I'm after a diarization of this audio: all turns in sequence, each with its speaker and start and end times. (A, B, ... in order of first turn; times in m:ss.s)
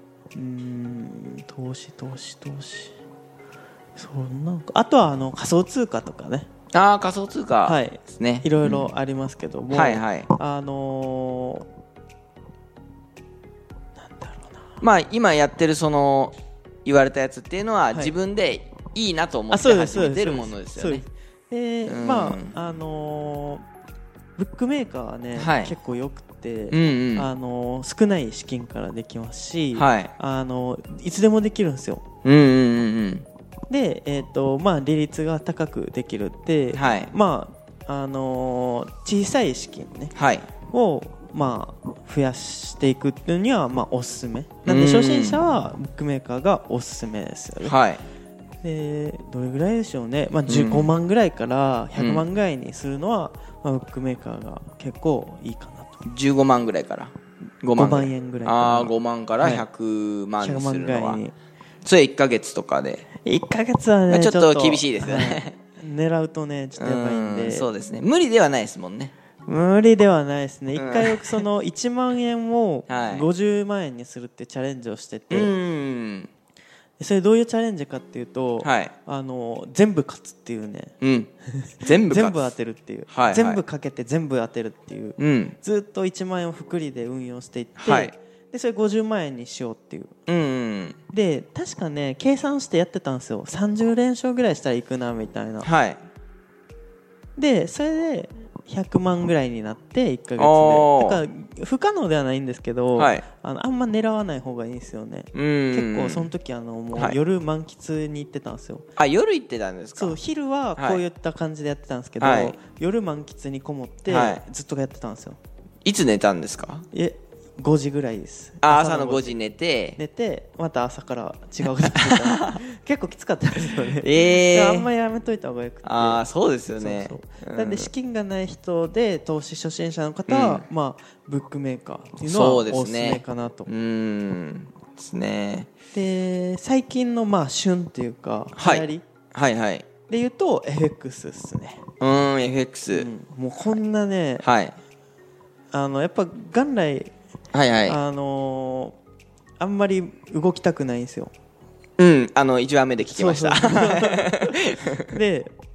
0:00.3-0:03.0 A
0:04.0-0:06.5 A
0:06.7-0:08.9 B
0:07.6-0:11.7 A
0:09.7-0:10.3 B
0:14.0-0:14.8 A
0:14.8-0:21.0 B
0:19.5-0:23.6 A
0:21.8-0:22.5 B
0:24.4-0:32.0 A
0:25.3-0:25.7 B
0:26.7-0:27.3 B
0:29.8-0:30.1 B
0:32.2-0:33.2 B
0:33.7-0:40.1 A
0:36.7-0:37.1 B
0:40.1-0:40.5 B
0:40.7-0:47.8 A
0:44.6-0:45.4 B
0:47.6-0:48.0 B
0:48.6-0:56.0 A
0:50.5-0:50.9 B
0:52.0-0:52.2 B
0:56.0-1:01.2 B
0:57.8-0:59.7 A
1:00.4-1:01.3 A
1:01.8-1:03.1 B
1:03.2-1:07.7 A
1:04.1-1:05.5 B
1:06.8-1:09.1 B
1:09.4-1:15.5 A
1:10.8-1:11.4 B
1:12.9-1:13.3 B
1:15.3-1:16.3 B
1:17.0-1:30.2 A
1:18.6-1:18.9 B
1:21.0-1:21.3 B
1:21.8-1:22.5 B
1:23.1-1:23.6 B
1:25.2-1:25.6 B
1:27.8-1:28.1 B
1:30.3-1:31.0 B
1:31.1-1:35.7 A
1:35.6-1:36.0 B
1:37.4-1:48.9 A
1:40.4-1:41.2 B
1:43.0-1:43.2 B
1:45.3-1:46.3 B
1:49.0-1:50.2 B
1:49.9-1:55.4 A
1:50.8-1:51.0 B
1:52.2-1:52.6 B
1:54.1-1:54.4 B
1:55.8-1:56.9 B
1:56.9-1:59.4 A
1:58.6-2:00.0 B
2:00.0-2:06.2 A
2:01.8-2:02.6 B
2:03.8-2:04.9 B
2:05.8-2:07.9 B
2:06.8-2:13.7 A
2:10.3-2:10.6 B
2:12.2-2:15.7 B
2:15.9-2:19.1 A
2:18.6-2:19.9 B
2:20.1-2:21.8 A
2:22.0-2:23.1 B
2:22.9-2:24.5 A
2:24.4-2:24.8 B
2:25.7-2:27.1 A
2:27.5-2:28.0 B
2:27.9-2:28.9 A
2:29.6-2:31.3 A
2:32.0-2:35.1 B
2:33.1-2:35.5 A